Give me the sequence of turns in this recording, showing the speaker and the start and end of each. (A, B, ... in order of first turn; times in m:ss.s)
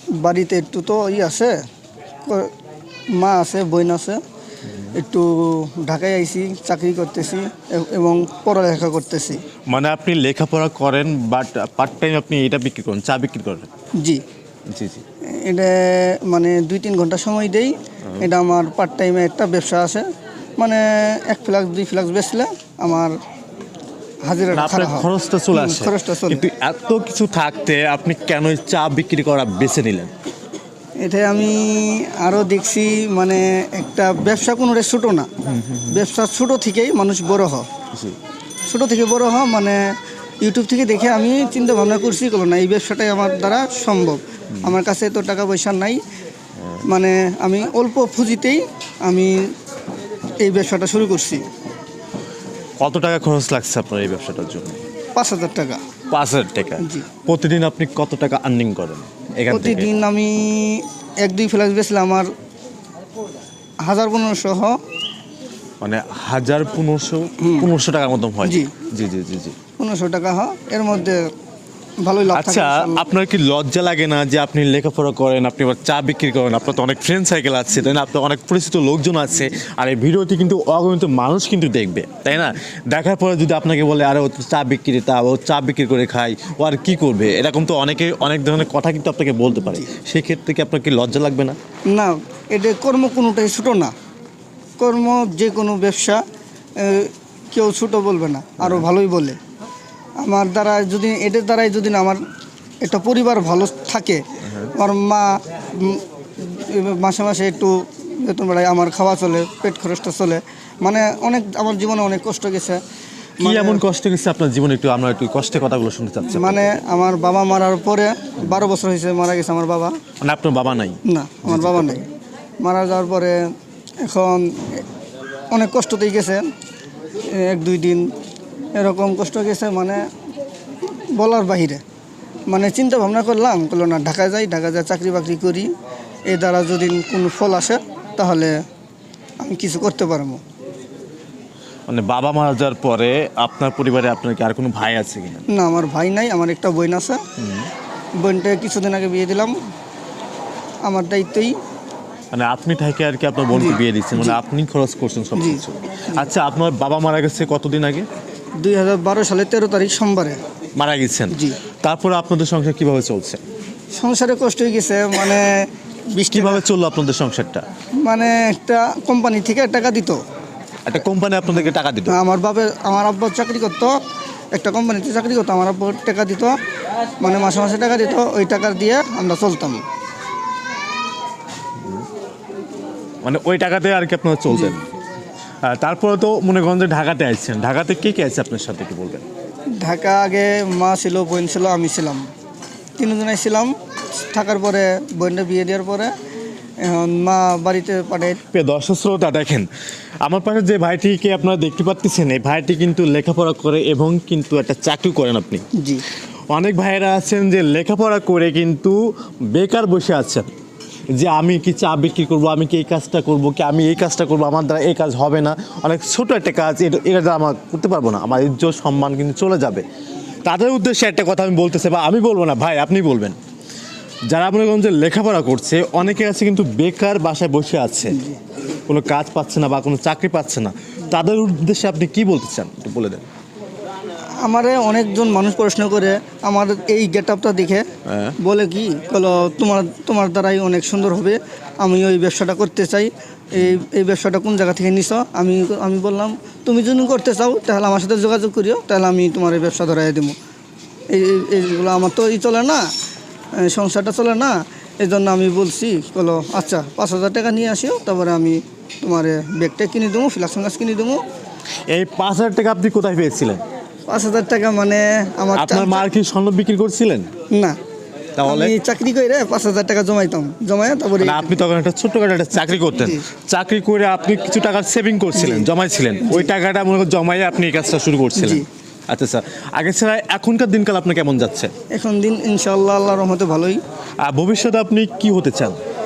0:00.2-0:01.5 A
0:03.1-0:04.2 A
0:04.9-0:09.4 A
0:09.7-0:13.7 B
0:14.7-0:15.0 B
0:15.4-0:20.0 A
0:20.6-0:23.1 A
0:24.2-0:26.4 A
0:24.5-0:30.1 B
0:31.0-0:35.3 A
0:35.5-0:36.0 B
0:35.9-0:37.7 A
0:38.7-0:39.8 A
0:40.4-0:46.0 A
0:46.9-0:49.4 A
0:50.4-0:51.4 A
0:52.8-0:54.8 B
0:55.2-0:55.8 A
0:56.1-0:59.9 B
0:56.8-0:57.1 A
0:59.5-1:02.3 A
1:03.8-1:04.8 A
1:05.8-1:09.6 B
1:07.4-1:07.7 A
1:08.4-1:08.7 A
1:09.8-1:11.2 A
1:12.0-1:13.0 A
1:12.3-1:31.6 B
1:31.9-1:33.9 A
1:34.8-1:36.2 A
1:36.8-1:39.4 A
1:38.6-1:38.8 B
1:40.2-1:42.2 A
1:42.8-1:44.2 A
1:44.4-1:44.7 B
1:44.7-1:52.8 A
1:53.4-1:53.8 A
1:53.4-1:56.8 B
1:56.3-2:00.0 A
2:00.2-2:02.0 B
2:01.1-2:02.1 A
2:02.6-2:03.4 A
2:04.0-2:04.8 A
2:05.5-2:06.5 A
2:07.3-2:08.1 A
2:08.8-2:10.0 A
2:11.1-2:11.8 A
2:12.5-2:15.7 A
2:16.3-2:18.5 A
2:19.4-2:20.4 A
2:21.9-2:25.4 B
2:25.5-2:27.2 A
2:27.4-2:27.7 B
2:28.2-2:29.5 A
2:30.8-2:31.5 A
2:32.3-2:38.1 B
2:33.5-2:34.4 A
2:35.4-2:35.6 A
2:38.6-2:40.4 A
2:40.8-2:43.4 B
2:41.3-2:41.6 A
2:43.9-2:46.6 A
2:46.3-2:47.6 B
2:48.0-2:50.2 A
2:50.8-2:52.2 B
2:51.5-2:54.0 A
2:54.5-2:56.6 A
2:57.2-2:59.8 A
3:03.2-3:04.8 B
3:04.5-3:04.7 A
3:05.6-3:09.2 B
3:09.8-3:12.2 A
3:13.0-3:16.1 A
3:16.8-3:18.4 A
3:18.5-3:19.7 B
3:20.2-3:25.6 B
3:25.8-3:26.0 A
3:26.5-3:29.0 B
3:29.5-3:30.5 B
3:31.2-3:39.8 B
3:40.4-3:43.4 B
3:44.3-3:48.2 B
3:48.9-3:53.2 B
3:54.4-3:57.8 A
3:58.1-3:58.3 B
3:58.4-4:10.4 A
4:11.1-4:12.9 A
4:13.6-4:21.2 A
4:21.9-4:23.6 B
4:24.1-4:26.0 A
4:25.5-4:27.3 B
4:27.5-4:27.8 A
4:28.4-4:28.8 B
4:28.4-4:31.6 A
4:31.2-4:41.7 B
4:32.6-4:33.2 A
4:35.3-4:35.7 A
4:36.2-4:36.5 A
4:38.4-4:38.6 A
4:41.9-4:43.8 A
4:44.2-4:45.8 B